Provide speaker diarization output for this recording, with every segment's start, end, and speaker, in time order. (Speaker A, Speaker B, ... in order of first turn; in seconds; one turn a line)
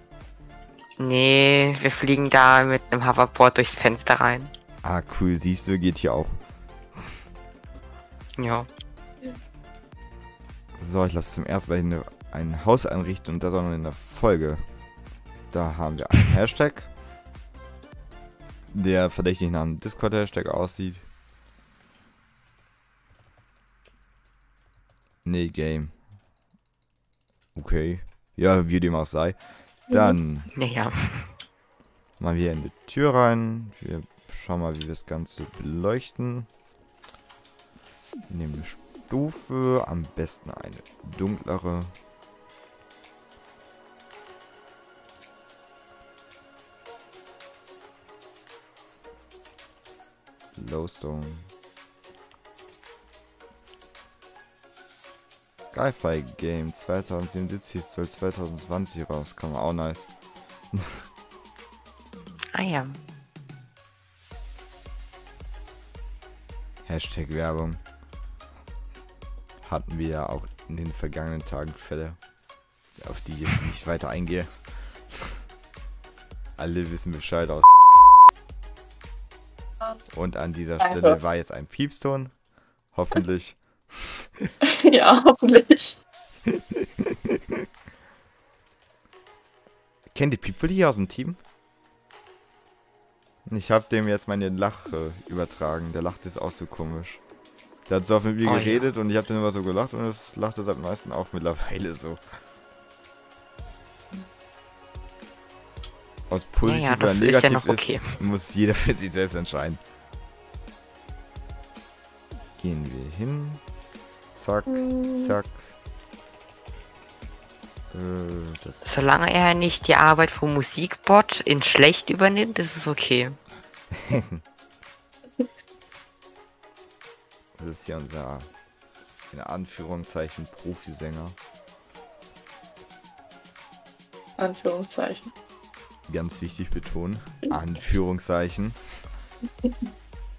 Speaker A: 1.0-4.5
Speaker B: 4.8-6.4
Speaker A: 8.4-8.7
Speaker B: 10.8-14.6
Speaker B: 15.5-16.9
Speaker B: 18.7-21.1
Speaker B: 25.2-25.9
Speaker B: 27.6-30.5
Speaker C: 29.9-30.2
Speaker A: 30.5-31.3
Speaker B: 32.2-36.5
Speaker B: 38.3-41.9
Speaker B: 50.6-51.5
Speaker B: 55.6-60.1
Speaker B: 60.7-61.0
Speaker A: 62.5-63.0
Speaker B: 66.9-67.8
Speaker B: 69.6-72.2
Speaker B: 73.0-74.5
Speaker B: 76.6-77.8
Speaker B: 80.1-82.3
Speaker C: 80.8-81.2
Speaker B: 82.9-83.6
Speaker B: 84.2-84.5
Speaker C: 84.6-86.0
Speaker B: 86.5-87.4
Speaker B: 90.1-91.4
Speaker B: 93.5-97.2
Speaker B: 97.9-102.2
Speaker A: 98.4-98.9
Speaker B: 106.3-109.8
Speaker A: 106.6-108.2
Speaker B: 112.6-113.6
Speaker B: 114.3-115.6
Speaker C: 114.7-115.4
Speaker B: 117.9-118.8
Speaker A: 118.8-123.4
Speaker B: 124.0-124.4
Speaker B: 127.6-128.5
Speaker B: 129.3-131.4
Speaker C: 134.4-135.3
Speaker B: 136.1-138.8